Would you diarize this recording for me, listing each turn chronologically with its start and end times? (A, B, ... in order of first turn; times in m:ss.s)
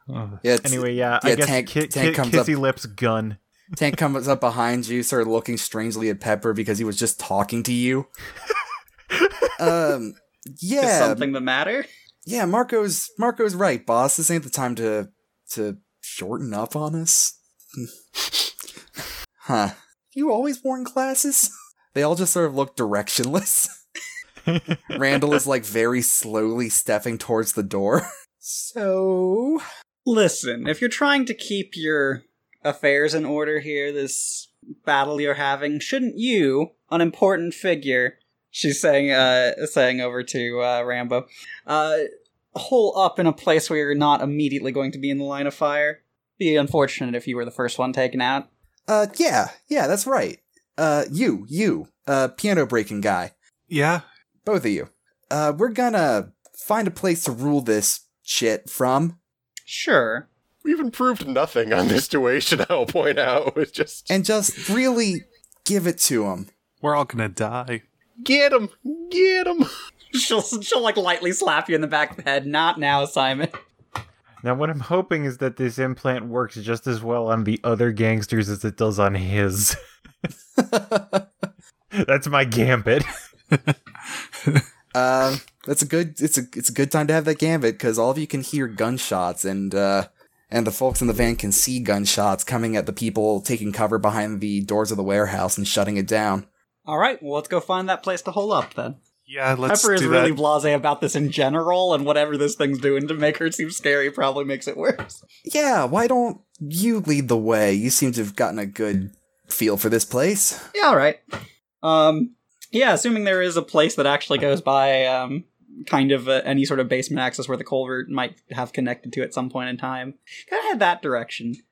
0:00.1-0:00.4 A
0:00.4-0:02.5 B
0:00.6-0:03.4 C
0:03.8-0:08.1 B
0:09.6-0:11.3 B
0:10.8-0:11.9 D
0:12.2-0:18.5 B
0:19.4-0:23.7 B
0:24.5-0:25.0 C
0:24.9-0:29.6 B
0:30.0-0:48.5 D
0:48.9-0:53.3 B
0:53.7-0:54.0 A
0:54.4-0:59.2 B
0:59.7-1:00.2 D
1:00.6-1:04.1 E
1:04.1-1:06.5 B
1:06.8-1:07.8 A
1:08.2-1:09.7 E
1:10.1-1:13.5 D
1:14.4-1:19.8 C
1:20.6-1:21.3 B
1:21.9-1:23.1 C
1:24.9-1:36.5 B
1:36.8-1:39.0 D
1:39.3-1:40.4 A
1:39.7-1:45.2 D
1:45.4-1:50.7 B
1:50.7-1:51.2 D
1:51.8-2:01.6 D